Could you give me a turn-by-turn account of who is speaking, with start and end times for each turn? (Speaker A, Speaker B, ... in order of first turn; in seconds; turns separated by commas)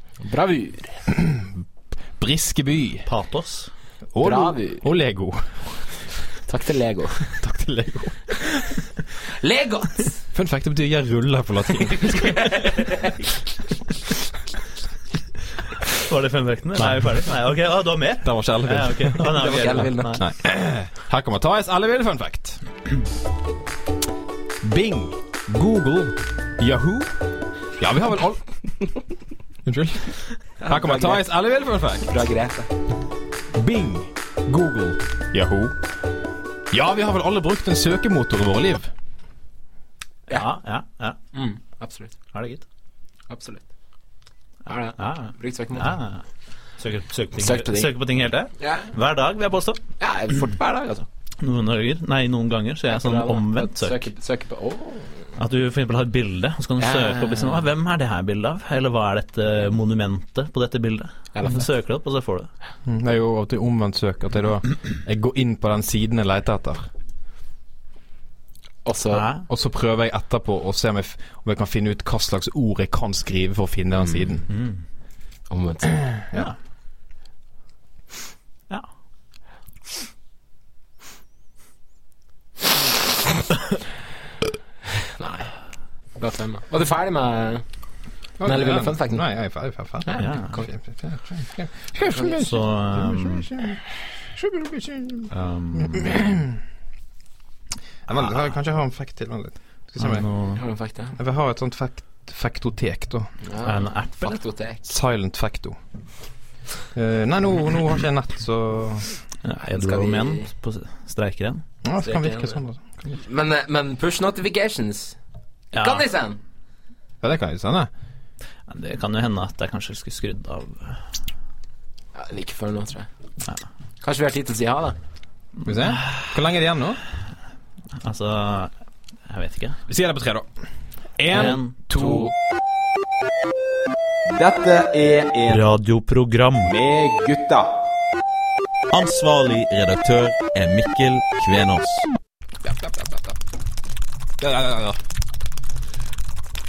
Speaker A: 0.2-0.9, Speaker B: 1.1-1.5, Speaker B: 2.2-3.1, Speaker C: 3.0-3.7, Speaker B: 4.1-5.4, Speaker A: 4.2-4.8, Speaker A: 6.5-7.2, Speaker B: 7.3-8.8, Speaker A: 9.4-10.1, Speaker B: 10.3-12.8, Speaker A: 12.0-13.0, Speaker C: 16.1-20.2, Speaker B: 16.8-17.1, Speaker B: 18.2-22.6, Speaker A: 19.3-20.2, Speaker B: 24.6-27.1, Speaker B: 27.8-28.4, Speaker B: 29.6-30.1, Speaker A: 30.6-31.2, Speaker B: 30.7-32.1, Speaker A: 32.1-32.7, Speaker B: 33.5-35.7, Speaker B: 36.7-38.9, Speaker C: 40.3-41.2, Speaker A: 41.3-42.1, Speaker C: 42.3-42.6, Speaker A: 43.3-43.6, Speaker A: 44.7-46.0, Speaker C: 45.0-46.2, Speaker C: 46.8-49.8, Speaker A: 47.4-47.9, Speaker A: 48.6-48.9, Speaker A: 50.0-51.1, Speaker C: 51.4-54.1, Speaker A: 52.9-55.1, Speaker C: 55.4-62.5, Speaker A: 56.8-57.6, Speaker A: 61.3-61.7, Speaker B: 62.9-66.8, Speaker A: 68.8-69.2, Speaker C: 69.1-69.5, Speaker B: 69.4-74.5, Speaker A: 73.9-74.3, Speaker C: 74.5-74.8, Speaker A: 75.5-75.9, Speaker A: 85.2-85.5, Speaker A: 86.2-87.6, Speaker B: 88.4-93.8, Speaker A: 88.4-89.2, Speaker A: 90.1-90.3, Speaker C: 90.2-90.6, Speaker C: 92.0-93.5, Speaker B: 94.3-96.6, Speaker C: 95.3-96.2, Speaker B: 98.1-100.2, Speaker C: 100.0-100.6, Speaker A: 100.5-101.2, Speaker B: 101.2-103.3, Speaker A: 103.4-104.8, Speaker C: 103.6-104.4, Speaker B: 104.9-105.8, Speaker B: 106.9-109.1, Speaker C: 109.4-111.6, Speaker A: 109.6-110.5, Speaker B: 111.8-113.2, Speaker A: 112.0-112.6, Speaker A: 113.2-115.2, Speaker C: 115.7-116.1, Speaker A: 115.7-116.4, Speaker B: 117.2-117.9, Speaker C: 118.7-121.0, Speaker A: 122.1-123.1, Speaker A: 124.0-125.0, Speaker B: 125.6-127.0, Speaker C: 125.7-126.0, Speaker C: 128.0-128.7, Speaker C: 129.3-129.8, Speaker B: 129.9-130.4, Speaker B: 131.2-132.3, Speaker C: 131.3-131.7, Speaker A: 131.9-132.3, Speaker D: 134.3-135.6, Speaker C: 135.5-136.7, Speaker D: 136.6-137.7, Speaker C: 138.9-140.6, Speaker C: 141.3-141.6, Speaker B: 144.4-145.0